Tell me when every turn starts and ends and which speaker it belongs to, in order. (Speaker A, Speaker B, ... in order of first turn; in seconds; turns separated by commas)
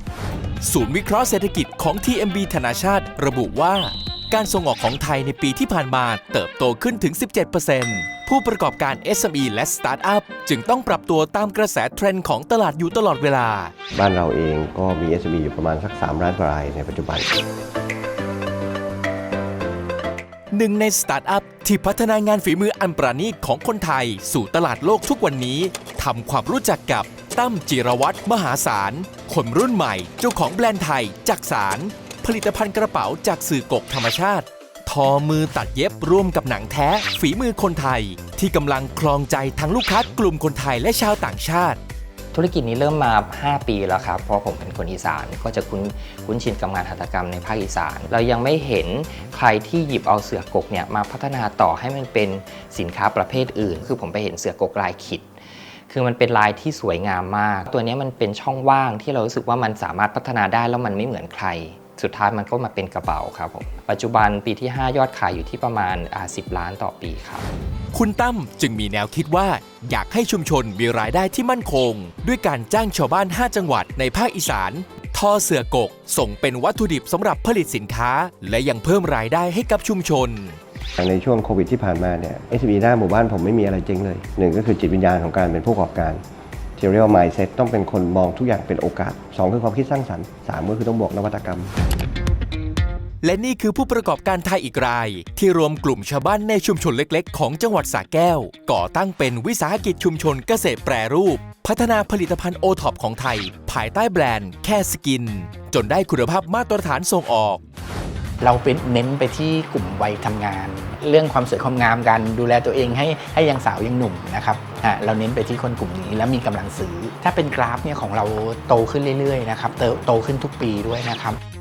Speaker A: 0.6-13.7, Speaker B: 13.9-17.3, Speaker A: 20.5-41.8, Speaker C: 42.3-55.3, Speaker C: 55.9-67.5, Speaker A: 67.9-80.6, Speaker B: 81.0-86.2, Speaker B: 86.8-91.7, Speaker A: 93.2-107.6, Speaker D: 108.4-121.4